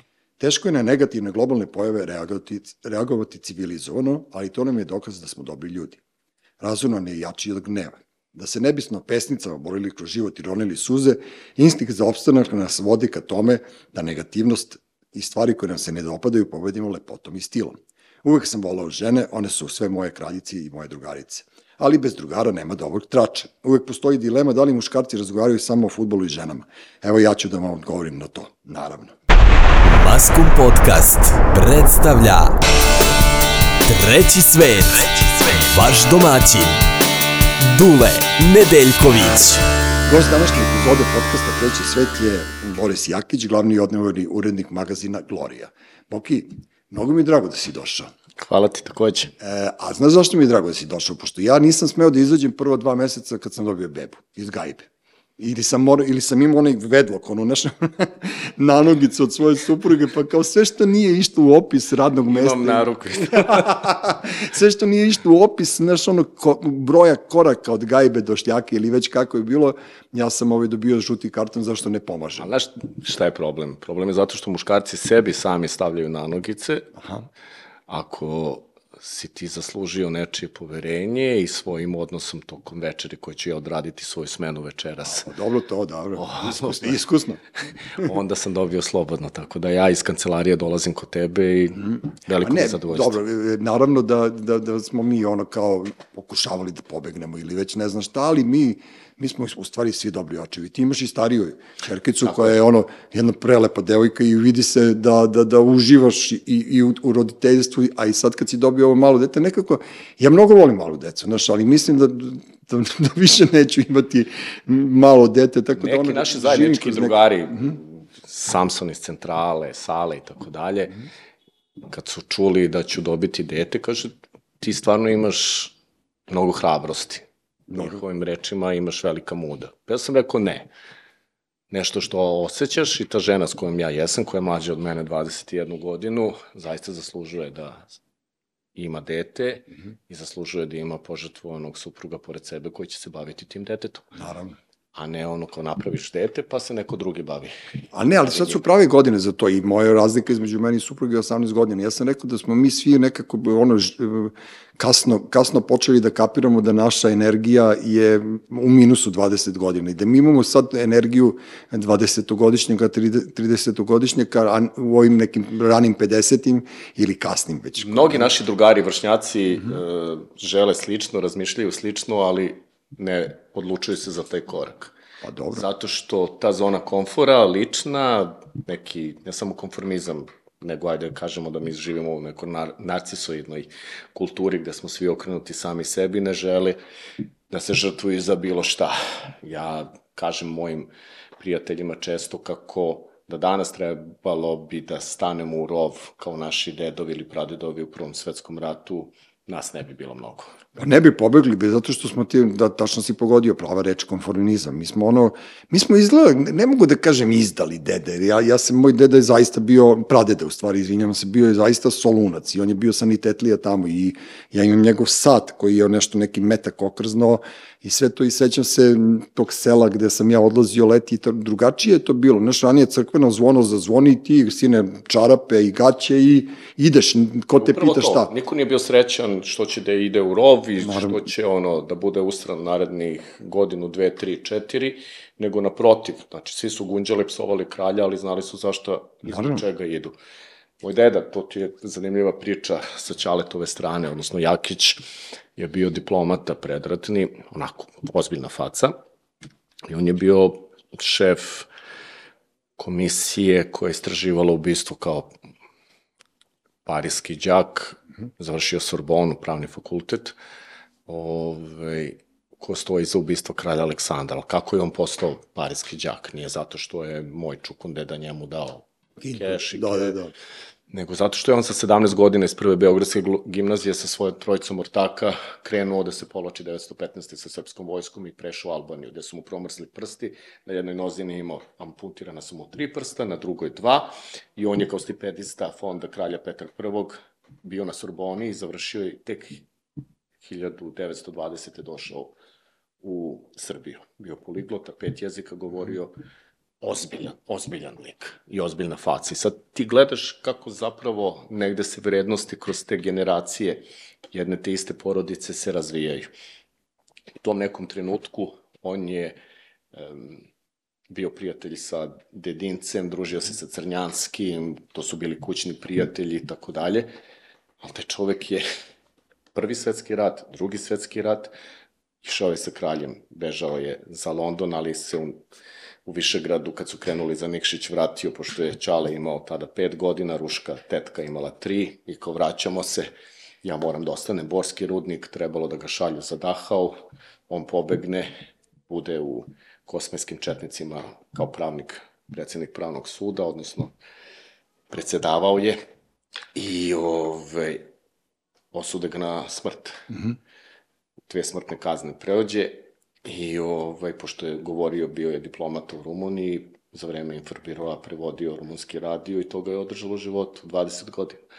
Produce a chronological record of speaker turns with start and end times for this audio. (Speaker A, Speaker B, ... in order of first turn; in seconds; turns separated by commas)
Speaker A: 0.4-6.0, Speaker A: 6.6-29.1, Speaker B: 30.0-32.6, Speaker C: 30.2-31.1, Speaker C: 31.9-32.4, Speaker B: 33.9-34.9, Speaker C: 34.1-36.6, Speaker B: 35.5-36.7, Speaker B: 37.7-39.6, Speaker C: 38.6-39.5, Speaker A: 40.1-48.1, Speaker B: 48.4-49.3, Speaker A: 49.4-72.5, Speaker B: 62.3-63.9, Speaker B: 72.4-76.9, Speaker A: 77.0-77.2, Speaker B: 77.9-85.3, Speaker A: 85.0-87.4, Speaker B: 86.2-87.0, Speaker B: 87.9-93.2, Speaker A: 91.9-117.7, Speaker B: 102.2-102.6, Speaker B: 115.8-121.0, Speaker B: 121.8-125.7, Speaker B: 126.3-130.7, Speaker A: 127.7-128.0, Speaker B: 131.7-138.0, Speaker B: 138.8-144.2, Speaker A: 144.2-144.6, Speaker B: 144.9-147.5, Speaker A: 147.9-168.3, Speaker B: 148.3-148.6, Speaker B: 167.8-174.9, Speaker A: 175.2-175.6, Speaker B: 175.5-186.8, Speaker B: 187.5-200.5, Speaker A: 200.8-228.3, Speaker B: 227.5-240.2, Speaker A: 230.8-231.3, Speaker A: 239.3-239.6, Speaker B: 240.8-248.9, Speaker B: 249.9-251.7, Speaker B: 252.8-255.3, Speaker B: 256.9-260.4, Speaker B: 261.1-270.2, Speaker A: 269.2-270.3, Speaker B: 270.9-289.6, Speaker B: 290.4-292.4, Speaker B: 293.0-296.1, Speaker B: 296.8-306.3, Speaker B: 307.4-309.4, Speaker B: 309.9-310.4, Speaker B: 311.1-317.1, Speaker B: 317.8-318.6, Speaker B: 319.5-321.5, Speaker B: 322.2-325.4, Speaker B: 326.1-333.1, Speaker B: 333.6-338.3, Speaker B: 338.9-343.9, Speaker B: 344.9-345.8, Speaker B: 346.6-347.9, Speaker B: 348.7-350.1, Speaker B: 351.3-361.4